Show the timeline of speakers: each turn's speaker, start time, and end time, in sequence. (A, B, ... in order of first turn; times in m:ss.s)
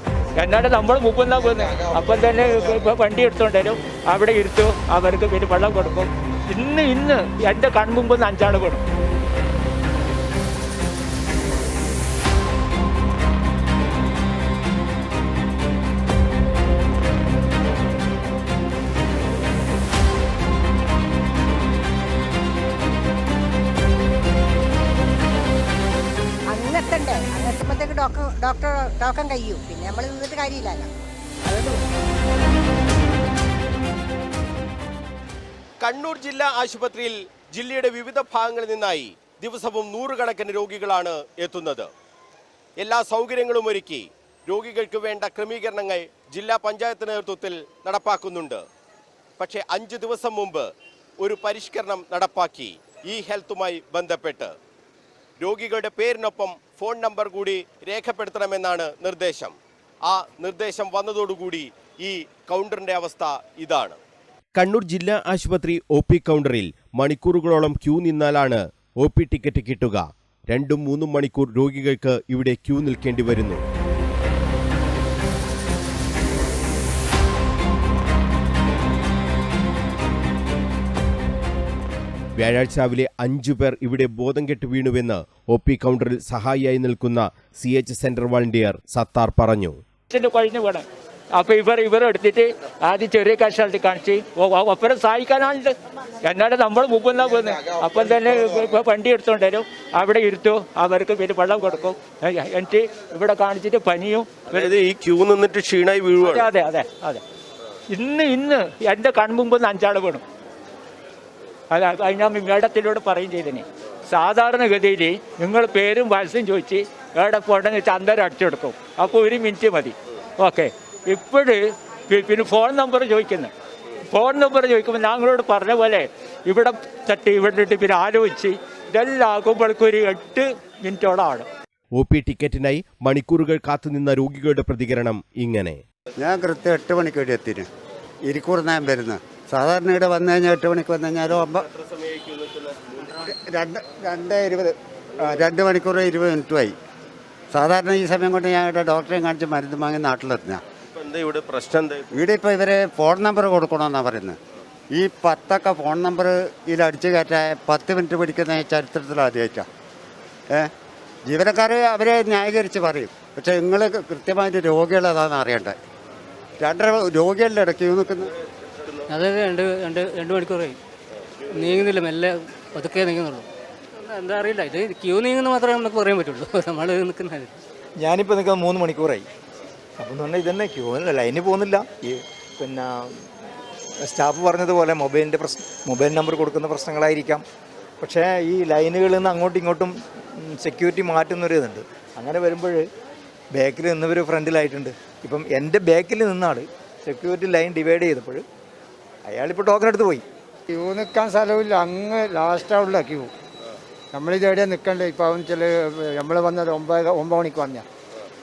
0:00.4-0:08.8 A
0:26.5-0:30.9 B
0:35.8-0:41.9 C
0:42.8-0:48.6 C
0:49.4-0:50.7 C
0:51.2-0:54.5 C
0:55.4-1:04.0 C
1:04.6-1:13.6 C
1:22.4-1:29.8 C
1:30.1-1:44.7 A
1:44.5-1:46.5 C
1:46.2-1:47.2 A
1:47.9-1:50.2 A
1:51.7-2:03.5 A
2:04.1-2:11.5 A
2:12.0-2:15.8 C
2:16.2-2:17.7 D
2:18.2-2:21.6 D
2:23.1-2:26.7 D
2:27.5-2:30.6 D
2:30.9-2:32.0 C
2:32.1-2:34.4 D
2:34.9-2:39.7 D
2:41.2-2:45.8 D
2:46.6-2:48.3 D
2:49.1-2:50.8 E
2:51.6-2:53.4 E
2:54.0-2:57.5 E
2:58.0-2:59.2 F
3:00.0-3:03.2 F
3:04.0-3:07.4 F
3:08.0-3:12.9 F
3:13.5-3:18.4 F
3:19.3-3:20.2 F
3:20.7-3:23.3 G
3:24.1-3:27.8 G